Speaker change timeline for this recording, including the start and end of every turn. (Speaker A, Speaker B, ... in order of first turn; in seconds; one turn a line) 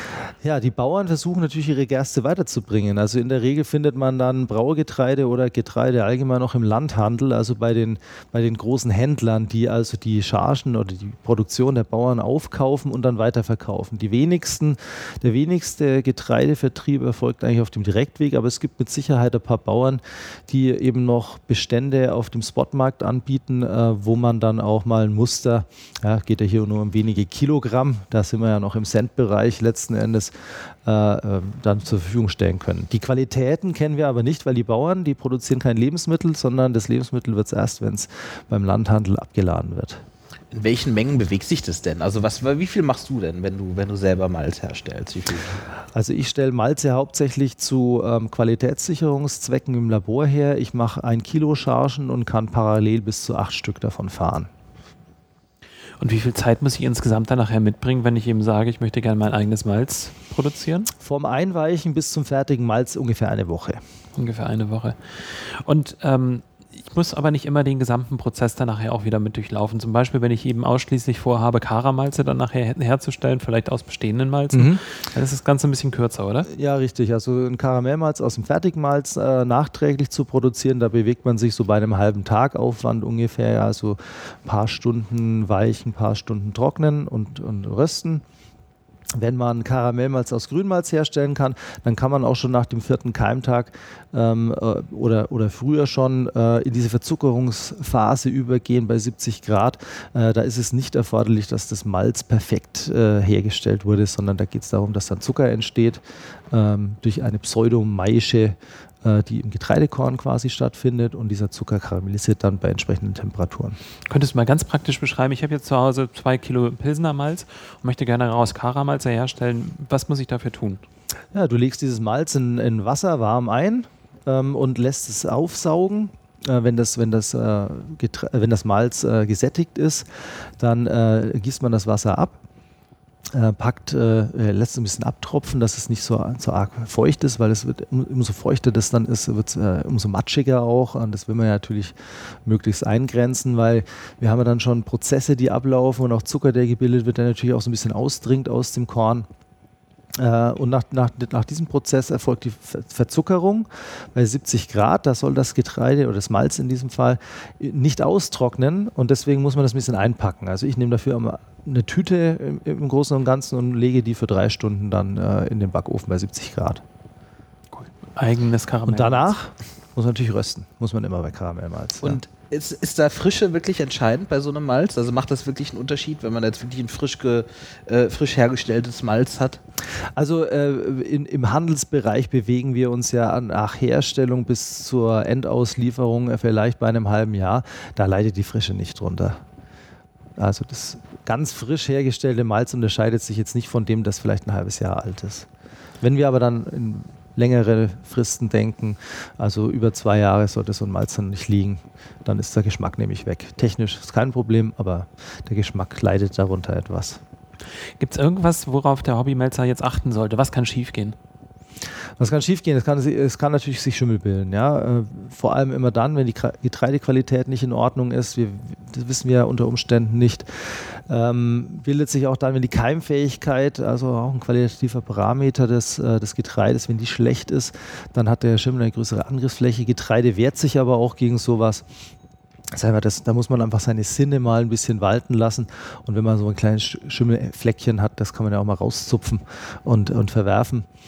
Speaker A: 0.4-40.0
Speaker B: 40.5-45.6
Speaker A: 45.9-54.5
Speaker C: 56.0-60.9
Speaker A: 61.0-63.8
Speaker C: 64.2-76.5
Speaker A: 74.5-74.8
Speaker A: 76.5-88.2
Speaker A: 89.2-113.8
Speaker C: 114.1-120.8
Speaker A: 121.3-132.4
Speaker A: 133.3-149.3
Speaker A: 150.2-166.8
Speaker C: 167.7-169.3
Speaker A: 168.9-172.2
Speaker B: 172.0-179.6
Speaker A: 179.9-189.4
Speaker A: 190.4-195.5
Speaker A: 196.0-207.2
Speaker C: 208.0-211.2
Speaker A: 212.2-231.9
Speaker A: 232.7-240.9